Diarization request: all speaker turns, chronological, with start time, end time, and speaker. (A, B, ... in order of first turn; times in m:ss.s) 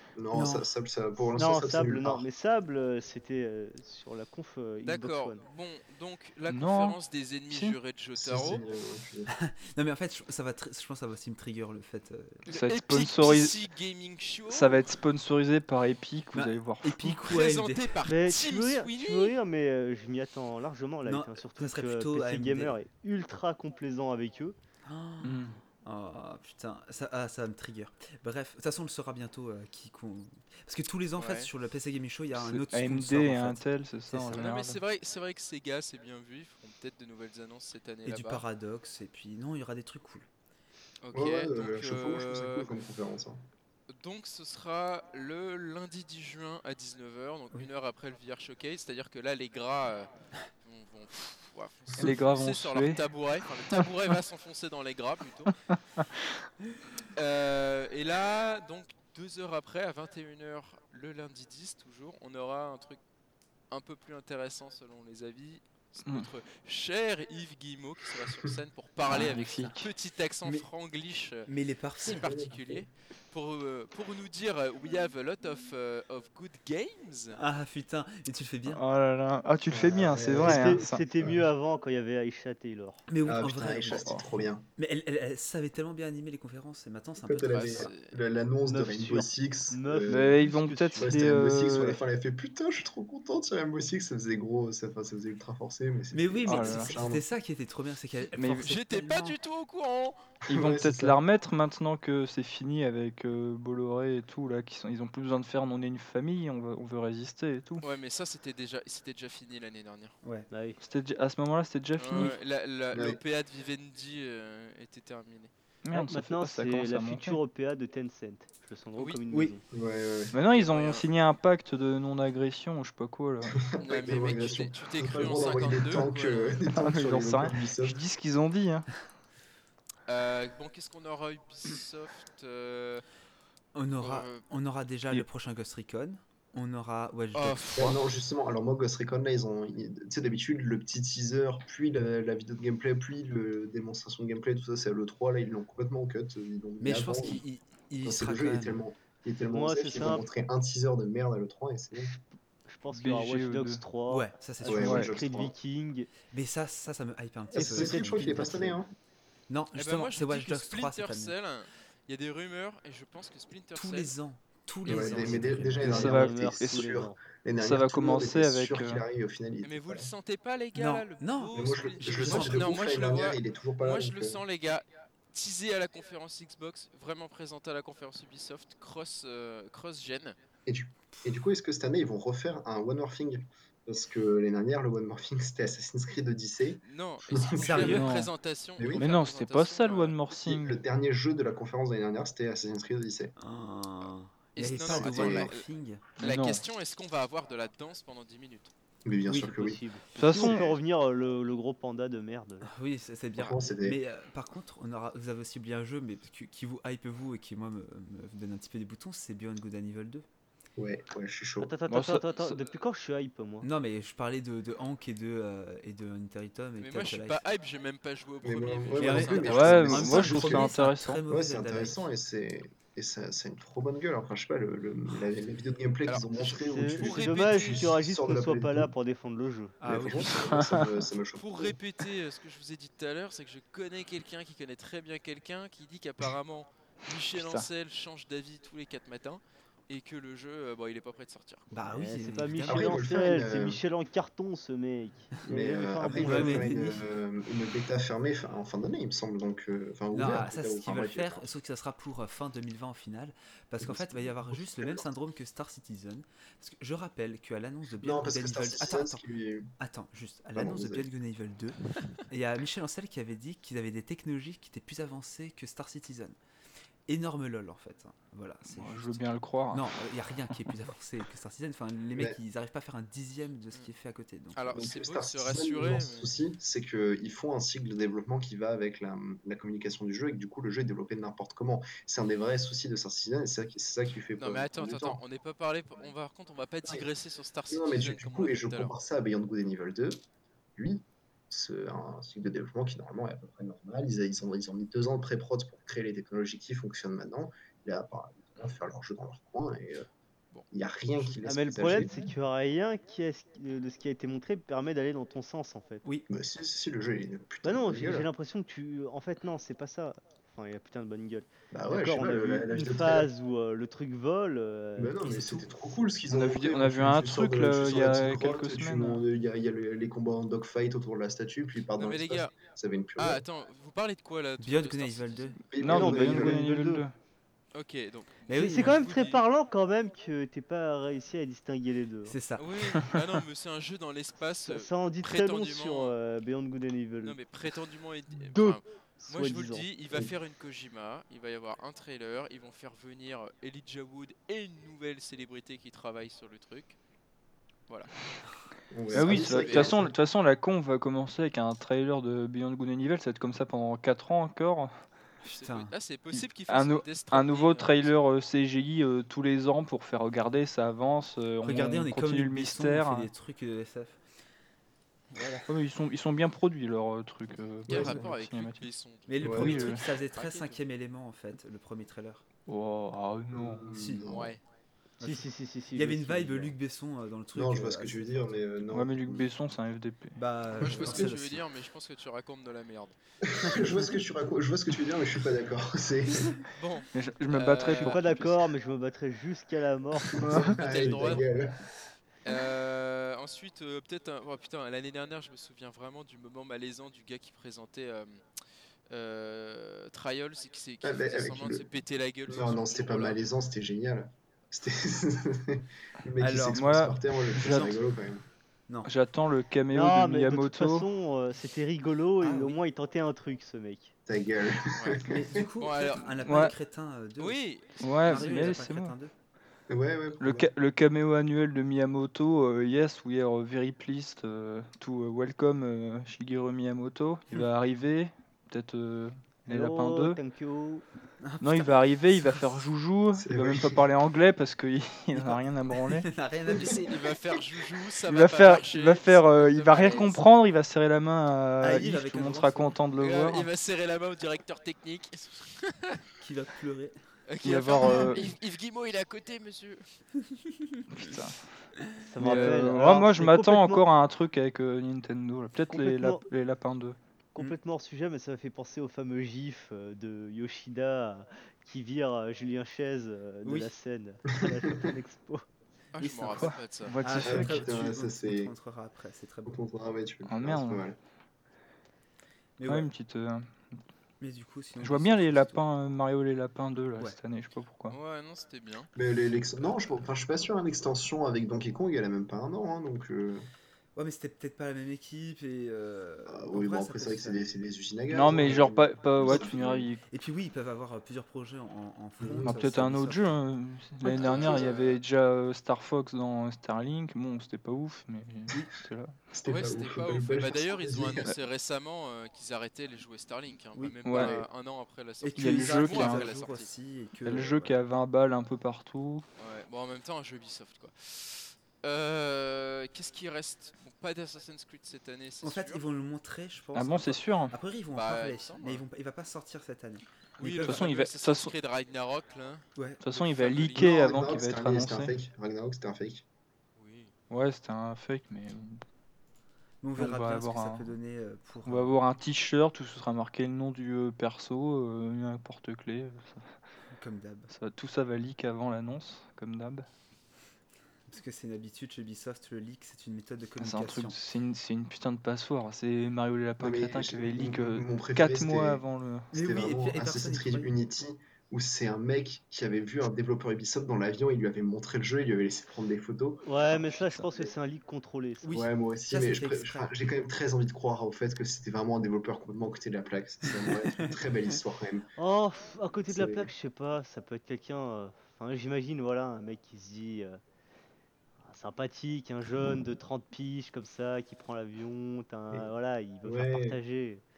0:00.2-0:02.2 A
0:00.3-0:00.7 B
0:01.4-0:05.4 C
0:04.8-0:08.6 D
0:06.5-0:07.0 E
0:07.5-0:07.8 E
0:08.2-0:09.3 A
0:09.3-0:12.4 B
0:12.5-0:14.9 D
0:12.5-0:13.6 E
0:14.5-0:17.2 E
0:16.3-0:18.0 B
0:17.2-0:19.4 D
0:18.0-0:24.6 C
0:21.0-0:22.8 B
0:24.8-0:34.5 B
0:25.2-0:25.6 E
0:31.2-0:31.5 D
0:32.3-0:34.8 E
0:34.3-0:38.4 D
0:38.0-0:40.3 B
0:41.0-0:42.7 D
0:41.1-0:43.4 A
0:43.9-0:50.1 D
0:50.6-0:55.6 D
0:52.0-0:53.0 E
0:55.7-0:56.1 E
0:57.1-1:03.0 D
1:03.7-1:17.4 D
1:09.1-1:09.9 E
1:11.5-1:12.3 B
1:12.1-1:12.8 A
1:17.4-1:18.8 B
1:18.7-1:21.0 E
1:19.7-1:21.5 A
1:20.3-1:23.1 C
1:23.1-1:24.2 B
1:23.2-1:24.7 A
1:23.9-1:24.2 E
1:24.8-1:27.9 B
1:27.2-1:30.4 A
1:27.5-1:28.2 D
1:28.7-1:31.2 C
1:30.1-1:32.0 E
1:31.0-1:37.2 A
1:36.1-1:39.4 B
1:36.5-1:37.0 E
1:38.4-1:38.7 E
1:38.6-1:40.2 D
1:40.5-1:41.2 A
1:40.5-1:47.8 E
1:47.8-1:50.2 D
1:50.2-1:50.5 B
1:50.5-1:50.8 C
1:50.8-1:52.4 E
1:52.0-1:55.5 D
1:52.9-1:53.2 A
1:55.8-1:57.4 E
1:55.9-1:59.6 C
1:59.0-1:59.2 D
1:59.3-1:59.5 B
1:59.7-2:00.4 A
2:00.3-2:03.6 E
2:00.5-2:01.1 D
2:03.5-2:08.0 A
2:03.8-2:06.6 D
2:06.7-2:09.0 E
2:10.1-2:13.0 D
2:13.7-2:18.0 B
2:14.0-2:14.5 D
2:17.3-2:18.0 D
2:17.8-2:27.4 A
2:26.8-2:28.8 B
2:28.0-2:32.1 A
2:29.5-2:30.3 C
2:32.0-2:36.1 C
2:32.9-2:33.8 E
2:34.1-2:35.0 B
2:34.6-2:35.6 A
2:34.8-2:35.1 E
2:36.3-2:38.8 B
2:37.5-2:38.7 C
2:37.5-2:38.9 A
2:39.5-2:41.4 B
2:39.8-2:44.2 D
2:43.7-2:46.2 B
2:44.8-2:50.1 A
2:44.9-2:45.3 D
2:45.8-2:46.9 E
2:45.8-2:47.2 C
2:47.6-2:49.0 E
2:49.6-3:00.4 D
2:50.7-2:53.0 B
2:51.5-2:54.4 A
3:00.7-3:08.1 A
3:06.8-3:10.2 D
3:07.6-3:08.1 B
3:07.8-3:08.3 E
3:08.8-3:09.1 A
3:08.9-3:10.8 E
3:10.4-3:13.3 A
3:13.4-3:16.0 B
3:14.6-3:15.7 D
3:14.8-3:15.5 A
3:16.2-3:18.7 D
3:16.2-3:16.6 E
3:19.0-3:20.8 A
3:19.3-3:19.8 B
3:19.5-3:22.7 C
3:20.2-3:20.7 E
3:22.6-3:30.2 B
3:23.4-3:24.0 A
3:30.8-3:31.7 A
3:31.6-3:33.7 C
3:31.9-3:32.6 E
3:33.6-3:37.4 B
3:36.8-3:40.2 D
3:38.4-3:40.8 A
3:39.0-3:42.1 B
3:39.4-3:41.2 E
3:41.3-3:48.9 A
3:46.1-3:47.9 D
3:46.5-3:49.8 C
3:49.8-3:50.4 B
3:49.8-3:51.8 A
3:50.5-3:50.9 E
3:51.4-4:01.7 D
3:57.3-3:57.7 E
4:01.7-4:03.0 B
4:01.9-4:06.9 C
4:02.7-4:03.8 A
4:05.5-4:11.5 A
4:06.1-4:07.0 B
4:10.1-4:19.2 B
4:13.8-4:15.1 A
4:18.0-4:19.7 A
4:19.8-4:26.4 B
4:20.6-4:21.1 A
4:27.1-4:34.8 B
4:28.7-4:30.0 E
4:34.5-4:36.4 D
4:34.7-4:45.2 A
4:44.4-4:49.0 D
4:47.7-4:50.2 A
4:50.8-5:00.1 A
5:00.7-5:02.2 A
5:01.4-5:06.0 C
5:06.3-5:08.3 A
5:07.6-5:15.6 C
5:11.7-5:13.3 A
5:15.0-5:23.4 A
5:15.2-5:15.7 B
5:16.3-5:19.2 E
5:22.0-5:22.6 D
5:23.2-5:25.6 D
5:24.6-5:25.6 B
5:25.7-5:26.7 A
5:25.8-5:27.1 E
5:25.9-5:27.0 C
5:27.7-5:29.4 D
5:28.5-5:29.1 B
5:28.6-5:32.4 C
5:32.2-5:32.7 B
5:32.6-5:36.2 D
5:34.6-5:37.4 C
5:37.2-5:47.0 D
5:38.4-5:39.9 C
5:48.9-5:50.2 A
5:49.1-5:54.9 E
5:49.1-5:50.0 D
5:55.4-5:55.9 B
5:55.5-5:58.1 D
5:56.3-6:03.3 E
6:01.6-6:04.2 B
6:05.3-6:05.7 B
6:05.7-6:08.9 E
6:07.9-6:10.8 D
6:07.9-6:08.2 A
6:09.3-6:12.4 B
6:09.4-6:09.8 A
6:09.5-6:10.0 E
6:12.7-6:13.8 E
6:13.5-6:14.6 A
6:13.9-6:14.4 B
6:14.2-6:14.6 D
6:15.2-6:16.7 C
6:15.2-6:18.5 B
6:17.5-6:19.5 A
6:18.9-6:20.4 E
6:20.4-6:21.6 B
6:20.8-6:23.2 D
6:20.9-6:21.3 A
6:23.5-6:26.6 A
6:23.6-6:24.2 B
6:26.7-6:28.2 D
6:27.1-6:28.6 E
6:27.9-6:30.5 C
6:30.3-6:30.8 E
6:30.4-6:31.8 A
6:30.7-6:31.5 D
6:32.4-6:38.4 D
6:39.1-6:43.4 D
6:41.0-6:41.9 A
6:42.5-6:48.4 A
6:46.4-6:47.0 B
6:46.7-6:48.0 E
6:47.6-6:48.0 B
6:49.0-6:51.1 E
6:49.9-6:54.2 C
6:52.4-6:52.8 B
6:54.3-6:55.7 A
6:54.9-6:55.2 D
6:55.2-6:57.6 B
6:55.8-6:56.6 D
6:56.4-6:56.8 E
6:57.4-6:58.2 D
6:58.0-6:59.1 E
6:58.2-6:59.3 B
6:59.9-7:00.7 A
7:00.4-7:10.4 E
7:09.7-7:11.1 C
7:11.4-7:12.7 B
7:11.6-7:16.3 E
7:13.4-7:14.0 A
7:15.3-7:17.3 B
7:16.8-7:20.4 D
7:18.3-7:23.7 E
7:21.8-7:22.9 B
7:23.2-7:26.2 D
7:26.4-7:27.2 B
7:27.5-7:30.1 D
7:27.6-7:28.5 E
7:28.0-7:28.3 B
7:30.5-7:31.4 B
7:31.1-7:31.6 E
7:32.0-7:32.8 B
7:32.3-7:34.0 C
7:32.4-7:37.2 E
7:35.9-7:36.5 C
7:37.6-7:45.6 C
7:43.6-7:43.9 B
7:44.7-7:45.0 A
7:46.1-7:47.2 D
7:46.2-7:49.8 B
7:46.5-7:47.9 E
7:47.4-7:48.7 A
7:49.7-7:51.2 A
7:50.5-7:51.1 E
7:52.8-7:53.1 B
7:52.9-7:53.8 E
7:54.4-7:55.8 B
7:55.0-7:58.2 E
7:58.1-7:59.1 D
7:59.2-8:03.7 A
8:04.2-8:07.6 B
8:06.5-8:10.1 A
8:08.3-8:10.2 E
8:09.4-8:13.5 B
8:12.4-8:12.8 A
8:12.6-8:19.3 E
8:14.2-8:15.0 A
8:14.4-8:15.2 D
8:19.5-8:21.5 A
8:19.6-8:26.9 D
8:24.0-8:24.2 B
8:24.2-8:24.6 E
8:24.4-8:24.7 A
8:25.4-8:28.0 B
8:25.6-8:26.5 E
8:27.4-8:29.4 E
8:29.6-8:36.0 D
8:35.6-8:41.1 B
8:36.9-8:37.8 E
8:38.1-8:39.0 D
8:40.6-8:44.2 D
8:40.8-8:41.7 E
8:43.0-8:43.2 B
8:43.2-8:45.4 E
8:44.0-8:46.4 A
8:47.0-8:47.3 D
8:47.5-8:49.0 E
8:50.0-8:52.1 B
8:50.2-8:51.1 E
8:51.9-8:56.7 E
8:57.1-8:57.7 B
8:57.7-9:00.1 E
9:01.3-9:04.4 B
9:03.8-9:09.5 E
9:06.8-9:17.7 A
9:09.5-9:10.9 B
9:16.6-9:18.8 C
9:18.6-9:20.1 B
9:18.7-9:25.3 A
9:23.9-9:24.2 B
9:25.4-9:30.6 C
9:26.3-9:26.7 A
9:31.6-9:37.4 C
9:36.4-9:37.0 A